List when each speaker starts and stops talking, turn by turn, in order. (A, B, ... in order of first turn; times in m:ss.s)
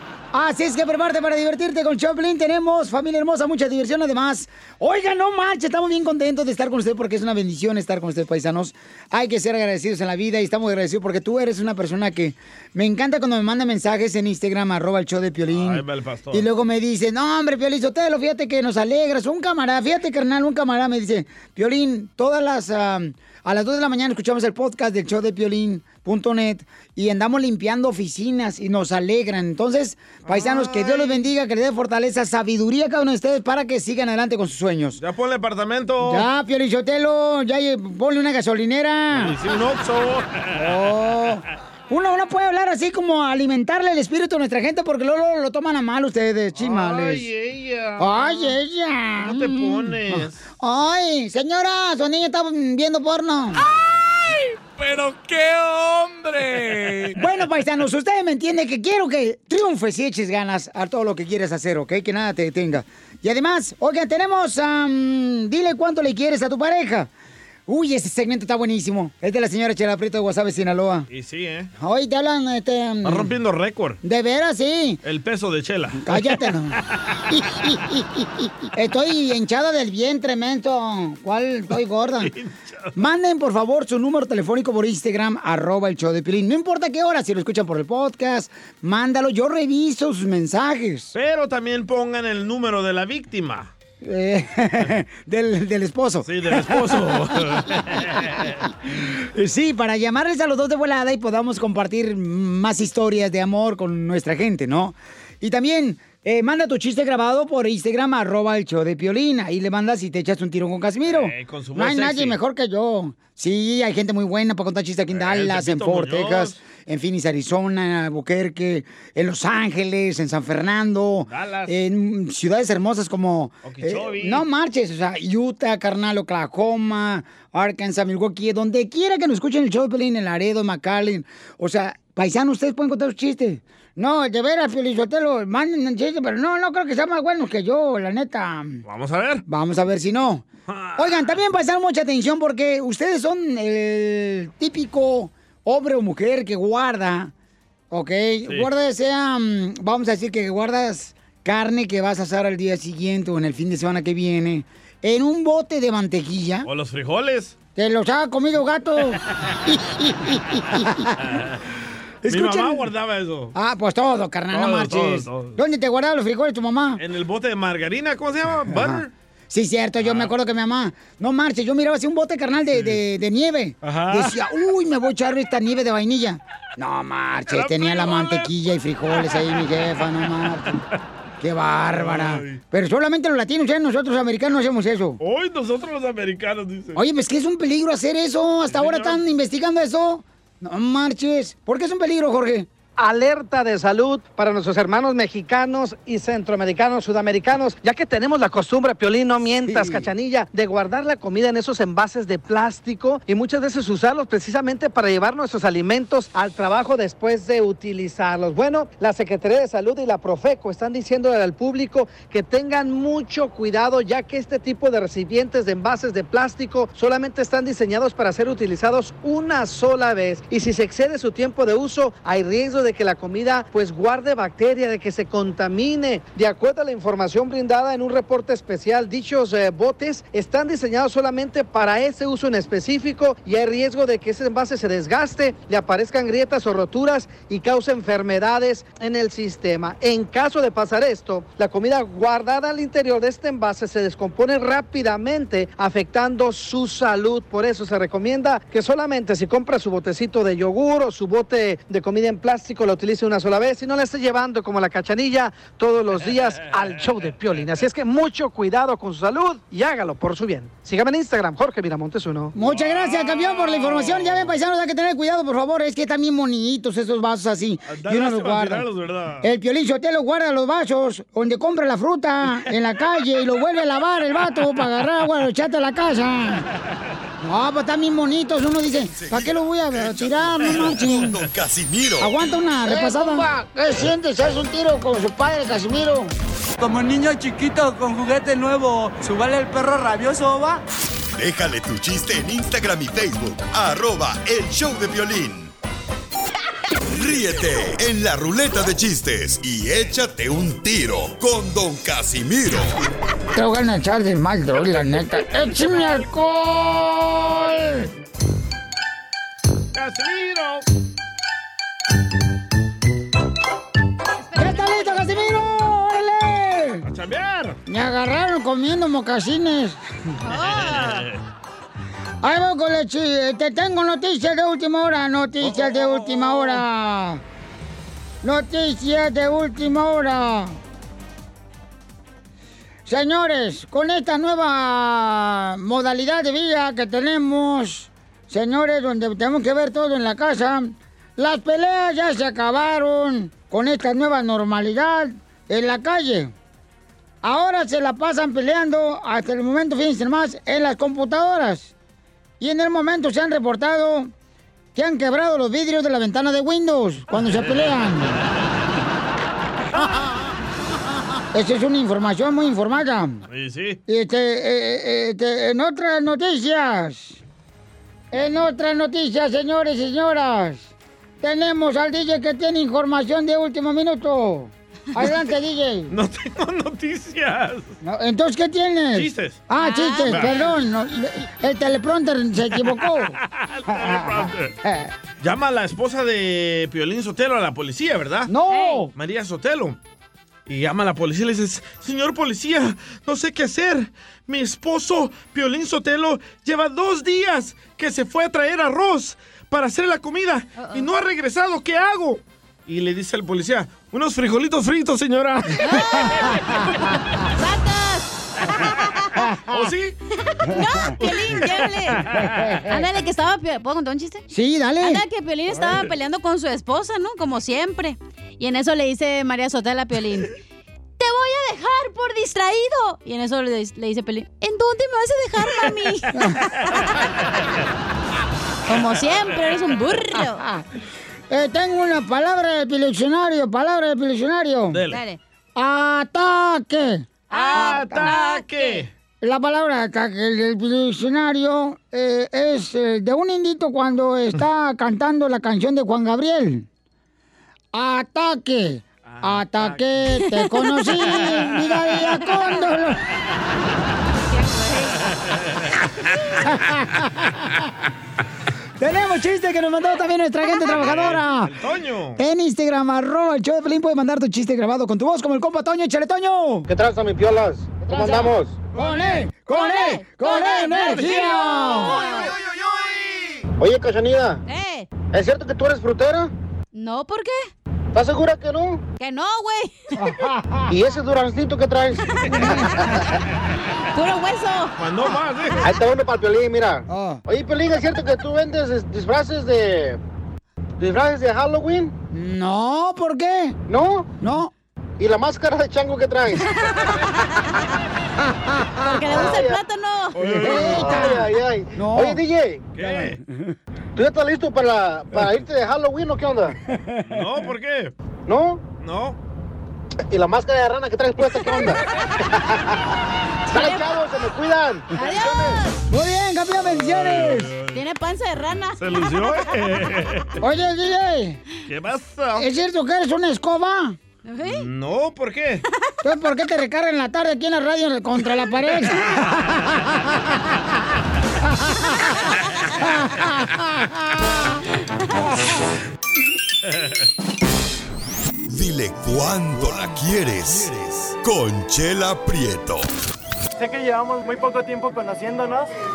0:00.3-0:35.0 A
0:15.5-0:16.5 B
0:30.2-0:31.3 B
0:35.0-0:36.3 B
0:36.0-0:39.4 A
0:39.1-0:40.6 B
0:40.6-0:47.3 A
0:46.6-0:48.6 B
0:48.0-0:53.6 A
0:49.2-0:50.4 B
0:53.6-0:57.2 B
0:57.2-1:07.1 A
1:07.7-1:11.1 A
1:11.1-1:11.7 B
1:11.8-1:13.3 A
1:13.0-1:14.0 B
1:14.0-1:15.0 A
1:15.0-1:16.4 B
1:16.0-1:22.3 A
1:22.2-1:23.0 B
1:23.0-1:31.1 A
1:31.2-1:33.7 B
1:34.0-2:18.8 A
1:36.2-1:38.7 B
1:51.0-1:52.4 B
1:55.1-1:56.6 B
2:01.3-2:01.7 B
2:03.6-2:04.4 B
2:18.8-2:19.4 B
2:19.5-2:20.5 A
2:20.7-2:21.4 B
2:21.0-2:27.3 A
2:27.9-2:36.7 A
2:36.6-2:37.6 B
2:37.8-2:41.4 A
2:42.2-2:42.8 A
2:42.3-2:43.5 B
2:43.6-2:47.0 A
2:44.5-2:45.6 B
2:47.0-2:49.1 B
2:48.7-3:00.8 A
2:50.0-2:50.3 B
2:52.8-2:53.0 B
2:53.8-2:54.4 B
2:57.5-2:58.5 B
2:59.2-2:59.6 B
3:01.4-3:05.2 A
3:01.9-3:02.6 B
3:05.2-3:07.0 B
3:07.0-3:12.7 A
3:08.7-3:09.2 B
3:13.0-4:22.5 C
3:19.7-3:20.1 A
4:22.5-4:28.9 A
4:22.6-4:24.5 B
4:27.9-4:29.5 B
4:29.4-4:36.7 A
4:37.4-4:41.3 A
4:39.2-4:42.3 D
4:42.2-4:46.3 A
4:43.1-4:43.4 E
4:46.8-4:50.8 F
4:51.3-4:55.7 D
4:57.1-5:03.0 D
5:03.5-5:08.1 A
5:09.9-5:10.8 B
5:14.4-5:15.7 G
5:14.6-5:17.0 A
5:17.0-5:17.8 B
5:17.9-5:20.0 A
5:20.4-5:21.2 G
5:20.5-5:21.4 B
5:22.4-5:27.4 A
5:25.6-5:26.8 B
5:28.4-5:30.8 A
5:33.1-5:46.5 A
5:47.4-5:51.9 A
5:52.6-5:54.3 A
5:55.0-5:58.4 A
5:57.3-5:58.1 B
6:01.5-6:03.4 A
6:03.5-6:04.0 B
6:04.1-6:07.4 A
6:08.3-6:16.1 A
6:16.1-6:17.9 B
6:18.0-6:23.4 A
6:19.2-6:19.6 B
6:19.8-6:20.7 G
6:20.3-6:20.6 B
6:22.9-6:24.7 B
6:23.9-6:25.1 A
6:25.4-6:28.5 B
6:28.5-6:29.1 A
6:28.7-6:29.0 G
6:29.2-6:30.0 B
6:30.7-6:45.9 B
6:40.8-6:41.1 G
6:45.8-6:48.3 G
6:48.8-6:49.4 G
6:49.5-6:49.9 A
6:49.7-6:50.2 B
6:50.5-6:52.2 G
6:51.2-6:52.8 B
6:52.4-6:52.9 A
6:52.9-6:54.4 G
6:54.5-6:55.2 A
6:55.0-7:00.5 G
6:55.8-6:56.0 B
7:01.2-7:06.7 G
7:06.3-7:06.6 A
7:08.9-7:10.6 G
7:10.6-7:10.8 A
7:11.5-7:15.0 A
7:14.9-7:15.2 B
7:15.1-7:15.4 G
7:15.8-7:18.3 A
7:17.5-7:19.0 G
7:17.5-7:19.1 B
7:19.4-7:26.9 A
7:28.0-7:33.2 A
7:29.3-7:30.1 B
7:30.5-7:31.4 G
7:34.5-7:35.4 G
7:36.6-7:37.9 A
7:39.0-7:41.7 A
7:40.9-7:42.4 B
7:42.4-7:46.9 A
7:46.9-7:48.8 E
7:48.1-7:52.5 A
7:49.7-7:52.5 G
7:51.9-7:53.6 B
7:53.8-7:54.6 E
7:54.7-7:55.1 G
7:55.3-7:56.5 E
7:56.9-7:57.7 G
7:58.1-7:59.0 E
7:59.2-8:00.2 G
8:00.2-8:01.0 A
8:00.9-8:02.2 E
8:02.5-8:03.1 A
8:04.0-8:05.0 G
8:05.0-8:05.8 B
8:05.8-8:10.2 E
8:07.1-8:07.4 A
8:11.0-8:12.1 E
8:12.3-8:13.8 A
8:13.9-8:14.4 E
8:14.4-8:14.7 A
8:15.2-8:16.6 E
8:16.8-8:17.8 G
8:19.0-8:21.4 G
8:19.3-8:19.8 E
8:20.4-8:21.3 B
8:20.4-8:22.4 A
8:20.9-8:22.8 E
8:23.0-8:23.4 B
8:23.0-8:23.3 A
8:24.2-8:26.8 E
8:26.9-8:27.4 A
8:27.2-8:28.1 B
8:28.5-8:28.8 E
8:29.0-8:29.4 B
8:30.3-8:33.0 E
8:33.7-8:34.0 G
8:33.7-8:35.8 E
8:35.2-8:36.0 G
8:36.1-8:37.7 A
8:37.0-8:38.0 B
8:37.9-8:39.6 G
8:39.0-8:40.6 B
8:40.6-8:41.6 A
8:41.9-8:42.7 B
8:42.6-8:44.2 A
8:44.4-8:44.8 G
8:44.7-8:45.8 B
8:46.2-8:51.0 A
8:49.0-8:49.9 B
8:51.6-8:52.5 A
8:53.0-8:54.6 A
8:58.7-9:03.1 D
8:59.7-9:00.1 B
9:00.7-9:00.9 B
9:03.8-9:05.9 H